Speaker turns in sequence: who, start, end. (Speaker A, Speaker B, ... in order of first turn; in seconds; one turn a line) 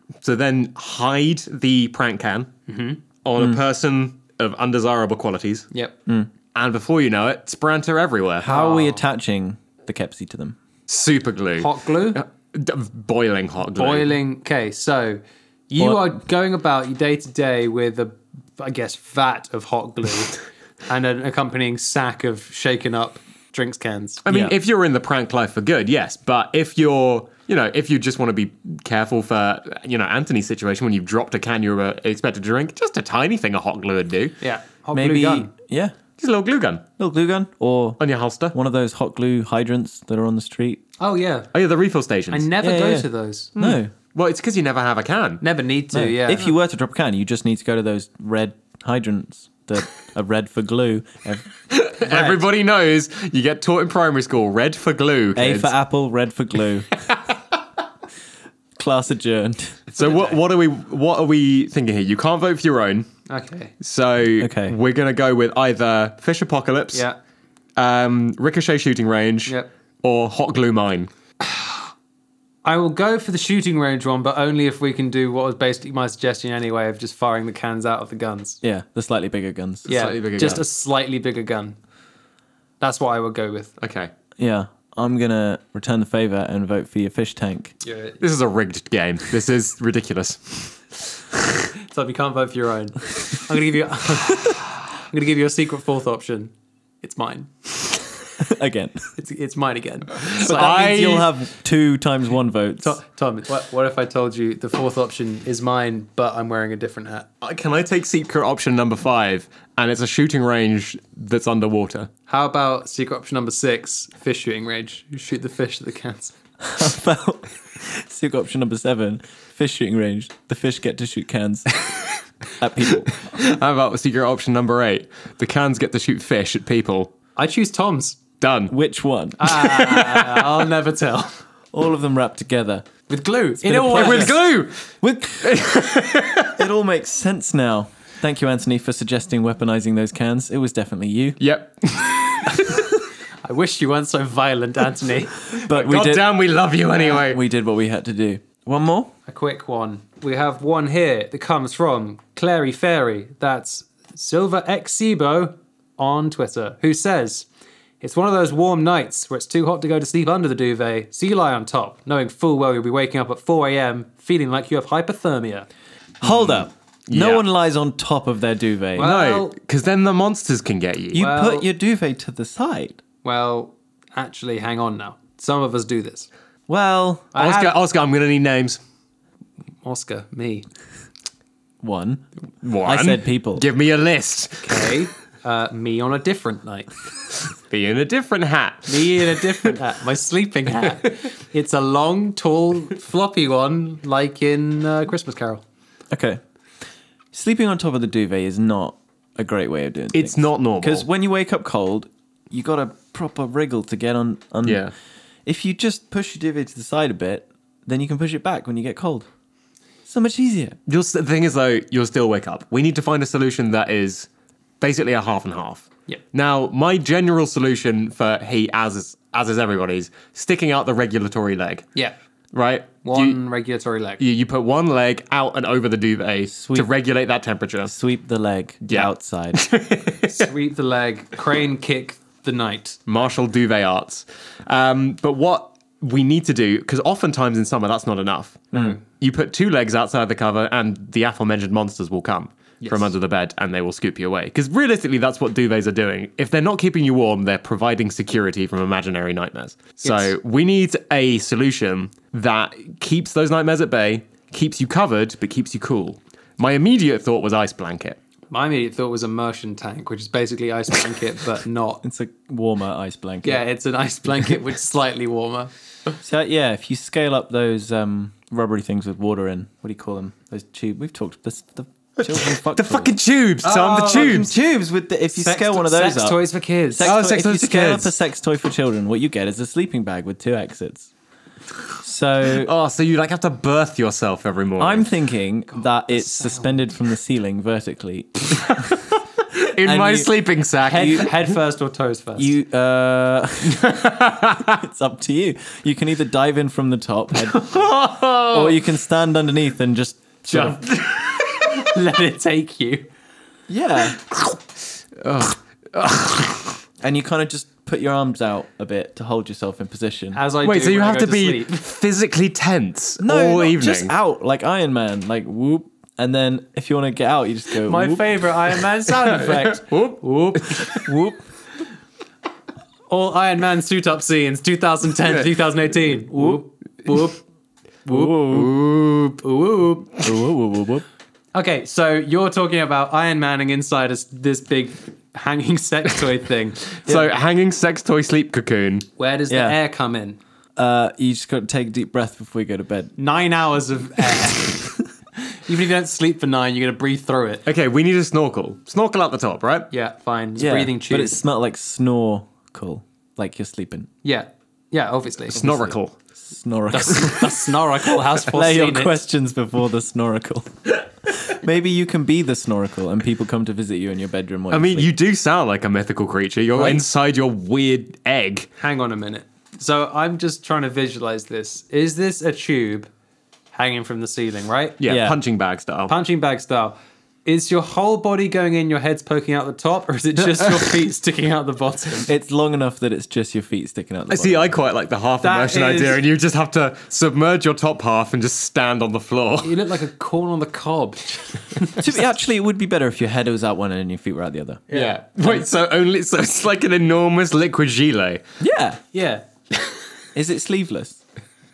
Speaker A: 0.2-2.5
Speaker B: 2.7-3.0
Speaker A: 3.2-5.7
Speaker A: 6.5-8.4
Speaker C: 8.4-10.6
Speaker B: 8.4-9.0
Speaker A: 10.9-14.2
Speaker B: 11.6-12.2
Speaker B: 13.8-24.2
Speaker C: 15.8-16.1
Speaker A: 24.2-34.4
Speaker C: 24.3-24.5
Speaker B: 34.4-35.5
Speaker C: 34.9-35.9
Speaker A: 36.2-36.8
Speaker C: 37.0-38.0
Speaker A: 38.0-38.5
Speaker C: 38.5-40.8
Speaker B: 41.0-41.5
Speaker A: 41.5-42.5
Speaker B: 42.3-43.5
Speaker C: 42.6-43.9
Speaker A: 43.5-45.4
Speaker B: 45.4-46.5
Speaker C: 45.9-52.4
Speaker A: 51.7-55.7
Speaker C: 55.3-56.9
Speaker C: 58.8-59.8
Speaker B: 59.9-60.4
Speaker A: 60.0-63.1
Speaker B: 63.3-63.7
Speaker A: 63.8-67.0
Speaker C: 64.4-64.8
Speaker A: 67.8-71.1
Speaker B: 71.4-71.9
Speaker B: 72.6-78.6
Speaker C: 78.6-79.9
Speaker A: 79.9-80.6
Speaker B: 79.9-81.8
Speaker B: 82.8-83.7
Speaker A: 83.8-84.1
Speaker C: 84.4-87.7
Speaker B: 87.8-88.2
Speaker A: 88.2-90.8
Speaker B: 91.8-97.9
Speaker C: 98.4-99.1
Speaker B: 99.2-101.0
Speaker A: 100.2-101.3
Speaker C: 100.5-103.0
Speaker B: 102.8-107.3
Speaker A: 107.4-112.1
Speaker B: 112.3-116.3
Speaker C: 116.6-121.8
Speaker A: 121.8-122.2
Speaker C: 122.6-123.2
Speaker A: 122.9-127.1
Speaker B: 127.3-128.2
Speaker A: 128.4-128.7
Speaker C: 128.7-130.2
Speaker B: 129.4-131.4
Speaker C: 131.7-132.8
Speaker B: 133.1-134.3
Speaker C: 133.6-134.4
Speaker A: 133.7-134.8
Speaker C: 135.0-135.6
Speaker A: 135.4-136.7
Speaker C: 136.6-141.4
Speaker A: 141.4-142.9
Speaker B: 143.4-145.4
Speaker A: 145.5-147.4
Speaker C: 145.6-146.3
Speaker C: 147.0-149.1
Speaker B: 149.3-157.5
Speaker B: 158.0-165.7
Speaker C: 166.2-169.1
Speaker A: 166.2-167.4
Speaker B: 168.9-169.5
Speaker A: 169.0-171.2
Speaker C: 171.1-173.0
Speaker B: 171.2-171.7
Speaker B: 173.2-176.3
Speaker C: 176.7-177.3
Speaker B: 177.3-177.8
Speaker A: 177.3-178.8
Speaker B: 179.8-180.7
Speaker C: 181.8-182.2
Speaker A: 182.6-185.0
Speaker C: 182.8-183.6
Speaker B: 184.6-186.9
Speaker A: 187.7-189.5
Speaker B: 188.9-195.6
Speaker C: 196.1-196.4
Speaker C: 197.3-204.8
Speaker A: 200.1-201.1
Speaker A: 204.6-204.9
Speaker C: 205.4-209.3
Speaker C: 210.1-210.8
Speaker A: 210.9-214.3
Speaker A: 214.8-221.8
Speaker A: 222.5-223.4
Speaker B: 223.0-224.2
Speaker A: 224.2-227.9
Speaker C: 226.5-226.9
Speaker C: 227.8-229.6
Speaker A: 228.8-230.4
Speaker B: 230.3-233.0
Speaker A: 233.1-258.2
Speaker B: 242.8-243.1
Speaker B: 250.0-250.3
Speaker B: 258.5-262.0
Speaker C: 262.0-263.6
Speaker B: 263.4-265.7
Speaker C: 266.2-273.1
Speaker A: 272.2-274.5
Speaker B: 273.6-274.5
Speaker C: 274.1-276.4
Speaker B: 275.4-277.1
Speaker C: 276.9-281.1
Speaker A: 277.0-278.1
Speaker C: 282.0-282.7
Speaker A: 282.6-285.1
Speaker C: 284.8-289.0
Speaker B: 286.1-286.8
Speaker A: 288.6-289.0
Speaker A: 289.5-291.3
Speaker C: 289.8-290.3
Speaker B: 290.8-292.5
Speaker C: 290.9-291.5
Speaker C: 292.4-294.0
Speaker A: 293.6-294.8
Speaker C: 294.6-297.8
Speaker A: 297.6-298.8
Speaker C: 298.5-300.8
Speaker A: 300.5-301.7
Speaker B: 300.6-303.1
Speaker C: 303.7-304.2
Speaker A: 304.3-304.6
Speaker A: 305.2-306.8
Speaker C: 307.0-310.4
Speaker B: 310.3-311.8
Speaker A: 310.6-314.1
Speaker C: 313.2-318.5
Speaker B: 317.8-321.2
Speaker A: 319.4-321.1
Speaker C: 321.1-321.4
Speaker B: 323.1-327.4
Speaker C: 328.1-328.7
Speaker B: 328.1-328.4
Speaker A: 328.3-329.4
Speaker B: 329.4-330.1
Speaker C: 330.2-331.1
Speaker B: 331.5-337.3
Speaker A: 337.1-339.1
Speaker B: 339.2-340.4
Speaker C: 339.5-339.8
Speaker C: 340.8-343.1
Speaker B: 343.2-344.9
Speaker B: 345.5-347.6
Speaker A: 347.6-349.9
Speaker B: 349.9-351.4
Speaker C: 350.6-354.1
Speaker B: 354.2-355.6
Speaker C: 355.5-357.7
Speaker A: 355.5-356.1
Speaker B: 356.9-359.1
Speaker C: 358.2-365.1
Speaker A: 364.7-368.7
Speaker C: 366.8-367.0
Speaker B: 368.8-373.1
Speaker B: 373.7-375.0
Speaker A: 375.0-376.1
Speaker C: 375.0-375.4
Speaker B: 376.1-382.3
Speaker C: 382.3-384.7
Speaker A: 384.3-389.8
Speaker B: 385.4-386.2
Speaker B: 389.6-392.1
Speaker C: 392.0-394.8
Speaker B: 394.9-395.6
Speaker A: 394.9-398.4
Speaker C: 398.6-399.0
Speaker B: 399.1-399.9
Speaker C: 400.3-401.2